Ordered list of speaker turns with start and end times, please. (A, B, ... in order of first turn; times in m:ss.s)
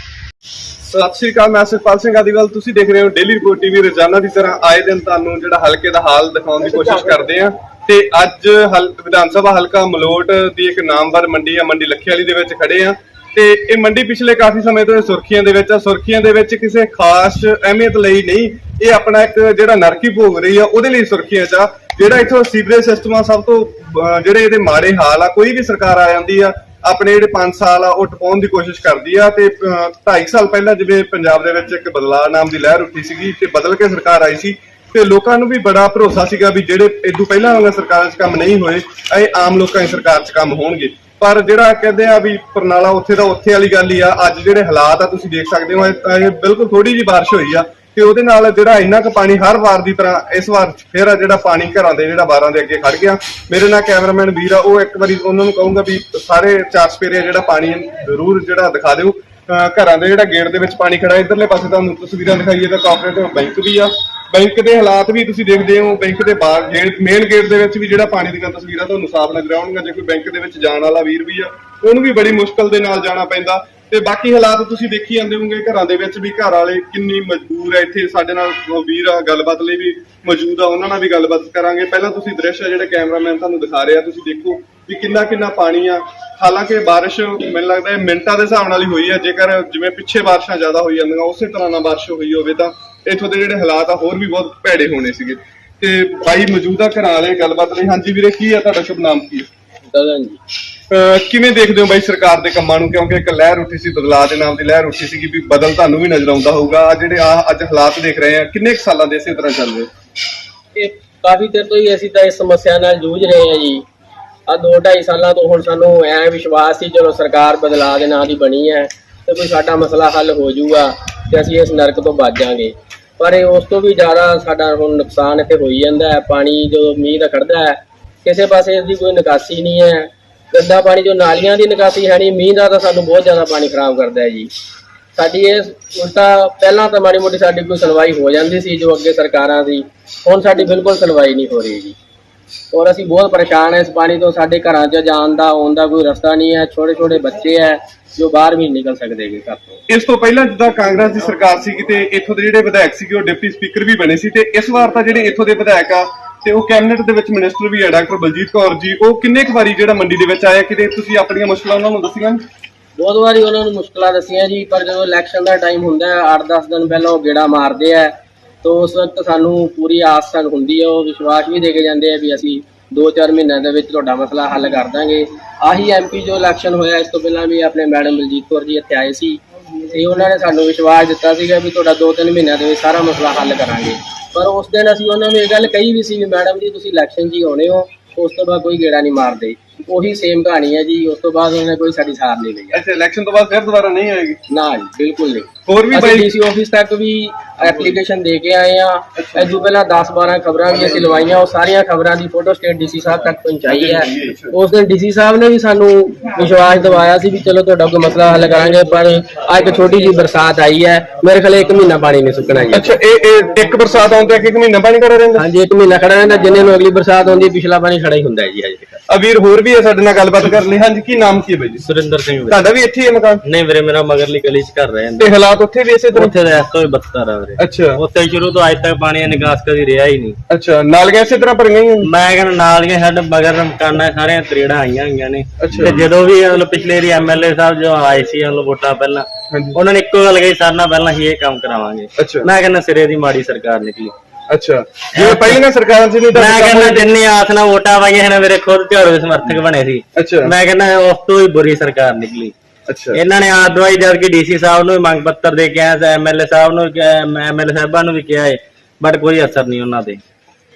0:00.8-1:39.5 A
1:39.9-1:40.4 B
1:40.9-1:49.9 A
1:50.7-1:53.8 B
1:54.5-2:14.5 B
2:15.1-2:21.9 B
2:22.7-2:29.7 B
2:29.9-2:42.4 A
2:43.0-3:12.8 B
3:12.7-3:14.4 A
3:14.5-3:32.9 B
3:15.6-3:16.3 A
3:19.2-3:19.5 A
3:23.7-3:24.5 A
3:32.7-3:35.4 A
3:35.4-3:39.0 B
3:39.1-3:41.8 A
3:41.8-3:42.7 C
3:42.5-3:43.4 A
3:43.4-3:45.3 C
3:45.2-3:46.3 A
3:46.1-3:50.3 C
3:47.6-3:48.0 A
3:50.5-3:52.1 A
3:52.0-4:04.1 C
3:55.6-3:56.0 A
3:59.5-3:59.8 A
4:02.2-4:02.5 A
4:04.5-4:07.1 A
4:05.1-4:05.5 C
4:06.3-4:12.5 C
4:10.1-4:10.5 A
4:12.9-4:13.2 A
4:13.1-4:20.2 C